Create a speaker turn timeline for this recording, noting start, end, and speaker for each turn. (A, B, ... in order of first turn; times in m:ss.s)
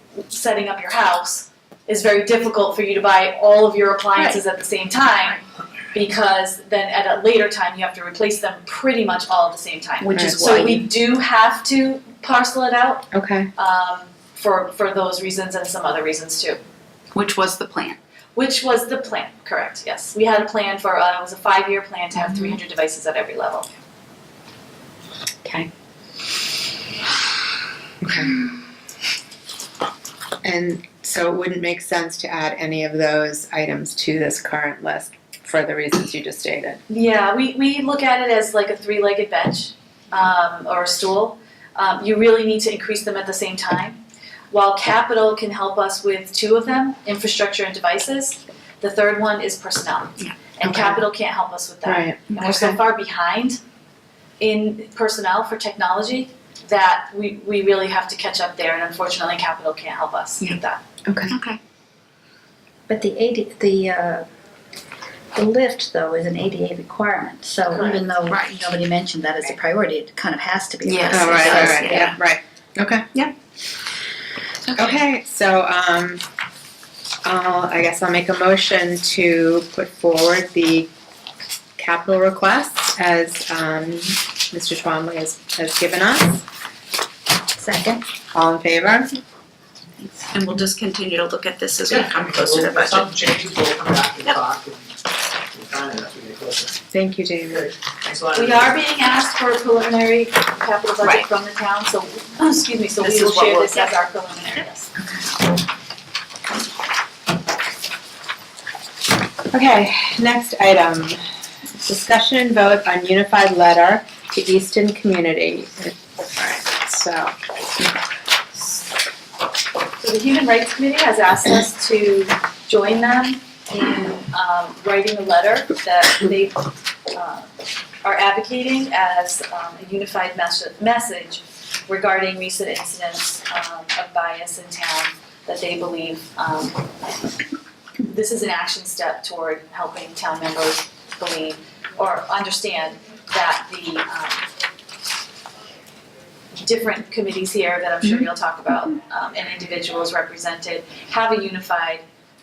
0:00.3-0:16.6 A
0:10.0-0:10.7 B
0:10.1-0:10.6 C
0:13.1-0:13.5 C
0:17.2-0:18.0 D
0:18.3-0:23.7 A
0:22.2-0:22.5 D
0:28.0-0:28.3 C
0:30.4-0:36.8 C
0:36.9-0:53.6 A
0:50.2-0:51.0 D
0:51.8-0:52.2 C
0:52.3-0:52.8 D
0:54.4-1:00.8 A
1:01.0-1:01.3 C
1:01.3-1:01.6 D
1:02.9-1:04.2 B
1:05.3-1:12.2 B
1:07.6-1:08.2 A
1:08.3-1:08.7 D
1:10.8-1:12.1 D
1:11.1-1:13.1 C
1:14.7-1:15.0 D
1:14.7-1:16.2 C
1:17.2-1:20.9 C
1:21.8-1:26.4 C
1:27.6-1:28.0 B
1:28.3-1:29.1 C
1:30.0-1:30.3 B
1:30.3-1:33.2 D
1:31.9-1:34.9 E
1:35.5-1:36.8 E
1:36.9-1:37.7 C
1:37.5-1:38.7 E
1:38.4-1:44.9 A
1:41.0-1:41.3 D
1:43.0-1:43.9 D
1:49.5-1:51.2 C
1:51.8-1:57.3 C
2:00.0-2:07.5 A
2:08.0-2:16.9 A
2:18.0-2:24.4 A
2:26.6-2:32.0 A